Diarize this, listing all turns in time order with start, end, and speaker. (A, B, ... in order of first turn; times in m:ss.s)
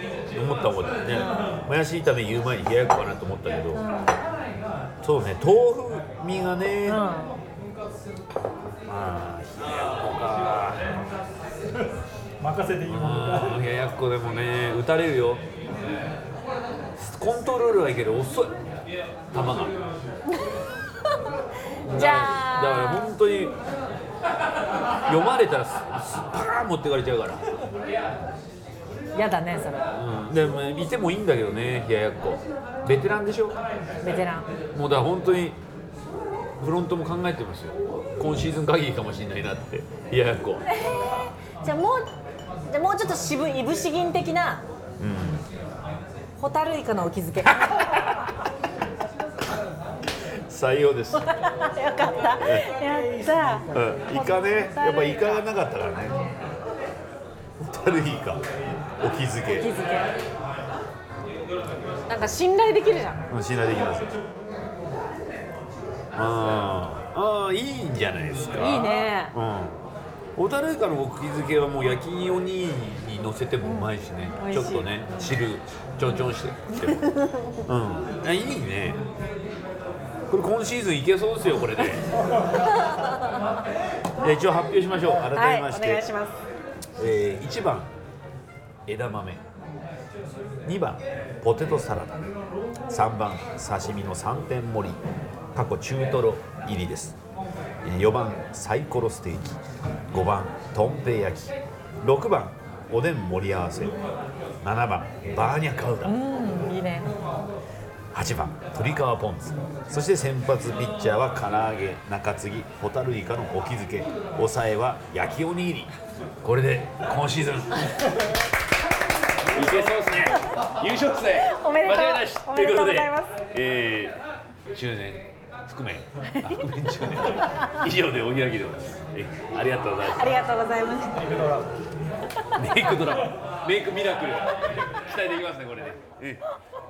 0:00.3-0:03.8 A
0:03.7-0:04.2 B
0:05.0-0:07.0 A
0:06.9-0:07.4 B
0:08.9-0:11.0 A
0:11.7-0:13.6 C
0:12.8-0:15.4 A
0:17.0-0:18.6 A
0:19.3-0:19.8 A
0:21.8-0:23.1 B
0:21.9-0:23.5 A
0:25.1-0:27.4 A
0:29.1-0:29.9 B
0:29.9-0:33.6 A
0:34.0-0:34.5 B
0:34.7-0:35.6 A
0:36.6-0:40.6 A
0:40.7-0:42.1 B
0:42.7-0:44.6 B
0:45.0-0:45.4 A
0:46.4-0:47.9 B
0:47.4-0:48.1 A
0:50.4-0:51.3 A
0:51.1-0:55.4 B
0:52.0-0:54.2 C
0:52.4-0:52.7 A
0:53.7-0:56.2 A
0:57.6-0:58.4 A
0:59.0-0:59.7 A
0:59.4-1:00.1 B
1:02.1-1:03.2 B
1:03.3-1:04.1 A
1:06.1-1:09.8 A
1:08.6-1:09.3 B
1:10.4-1:17.1 A
1:13.6-1:15.4 B
1:16.8-1:17.6 B
1:17.6-1:19.0 A
1:20.3-1:22.1 A
1:24.2-1:26.1 A
1:25.3-1:26.4 B
1:27.0-1:27.9 A
1:28.9-1:29.4 A
1:30.6-1:32.3 A
1:32.9-1:35.0 A
1:35.5-1:37.2 A
1:37.8-1:39.6 A
1:40.1-1:44.0 A
1:44.6-1:46.2 A
1:46.0-1:47.1 B
1:48.1-1:55.9 A
1:56.4-1:58.0 A
1:59.5-2:04.2 A
2:01.4-2:03.4 B
2:04.7-2:10.4 A
2:06.3-2:06.6 B
2:10.0-2:11.2 B
2:11.1-2:11.7 C
2:12.5-2:16.4 A